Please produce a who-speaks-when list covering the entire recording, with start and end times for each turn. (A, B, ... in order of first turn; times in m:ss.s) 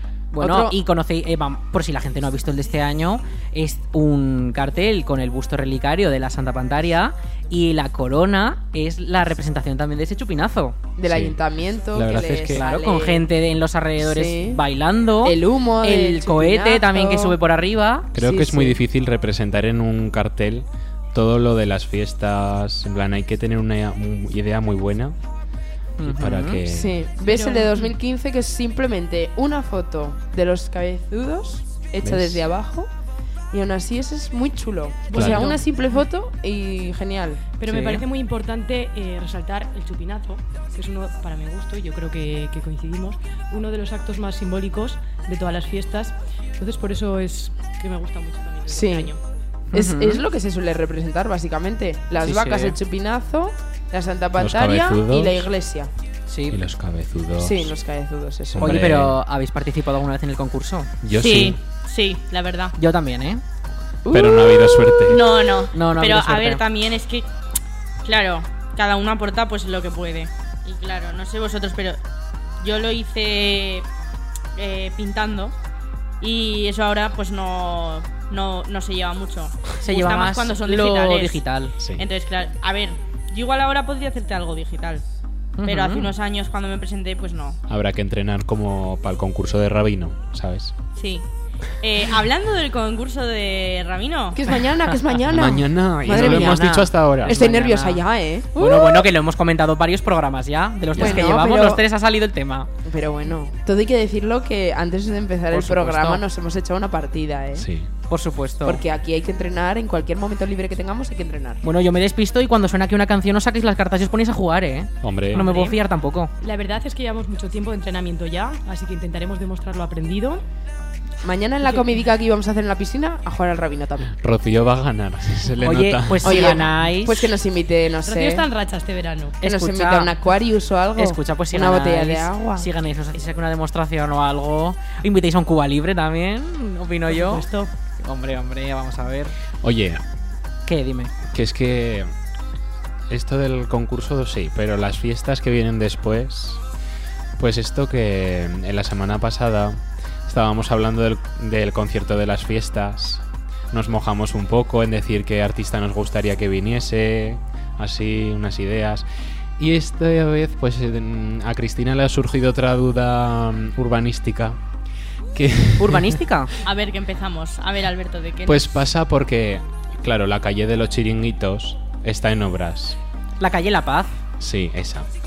0:00.3-0:10.8 A
0:00.4-0:00.8 B
0:11.0-0:13.3 B
0:11.0-0:11.4 C
0:11.9-0:12.6 C
0:12.5-0:18.1 A
0:14.0-0:14.6 B
0:15.2-0:17.4 B
0:18.1-0:25.2 C
0:18.2-0:18.8 B
0:26.0-0:26.6 A
0:26.0-0:27.0 C
0:26.6-0:32.9 B
0:27.3-0:27.7 D
0:32.0-0:32.5 C
0:33.5-0:37.5 B
0:35.1-0:36.0 D
0:35.1-0:35.5 C
0:37.6-0:49.2 D
0:37.6-0:38.0 A
0:48.7-0:49.1 B
0:49.7-0:55.9 B
0:49.7-0:50.2 A
0:52.2-0:52.8 A
0:54.4-0:55.5 C
0:56.3-0:56.6 A
0:56.5-0:57.7 C
0:57.4-0:58.8 B
0:58.5-0:59.2 C
0:58.6-1:00.9 A
1:01.0-1:01.6 C
1:01.1-1:02.7 E
1:02.8-1:03.4 A
1:04.0-1:05.2 B
1:04.1-1:05.3 C
1:05.1-1:07.3 E
1:05.7-1:06.6 A
1:08.0-1:12.0 E
1:12.6-1:13.9 E
1:14.6-1:15.5 E
1:16.2-1:21.4 E
1:19.8-1:21.7 A
1:21.8-1:22.0 C
1:22.0-1:25.0 E
1:25.6-1:26.1 A
1:25.6-1:27.6 E
1:27.7-1:30.7 C
1:31.0-1:31.2 E
1:31.8-1:34.4 E
1:34.3-1:39.1 B
1:35.3-1:37.4 C
1:36.1-1:38.0 A
1:38.6-1:42.7 A
1:40.9-1:41.2 C
1:40.9-1:41.8 B
1:42.8-1:47.7 B
1:45.5-1:46.2 A
1:47.6-1:47.9 C
1:48.1-1:48.8 A
1:48.6-1:51.6 B
1:51.6-1:56.3 A
1:55.0-1:55.4 C
1:55.3-1:55.8 D
1:56.4-2:00.4 D
2:01.2-2:04.1 B
2:04.2-2:06.5 C
2:05.6-2:07.2 A
2:06.2-2:08.5 B
2:08.0-2:09.4 D
2:09.4-2:10.1 A
2:09.4-2:12.7 B
2:11.0-2:17.4 A
2:17.1-2:17.7 D
2:18.0-2:19.3 A
2:19.6-2:20.0 C
2:20.6-2:21.1 A
2:21.3-2:22.1 C
2:23.1-2:26.6 C
2:27.4-2:39.0 C
2:39.6-2:44.6 C
2:45.3-2:46.2 C
2:45.8-2:46.5 A
2:46.6-2:48.6 E
2:48.4-2:53.0 C
2:53.4-2:54.1 A
2:54.4-2:55.1 C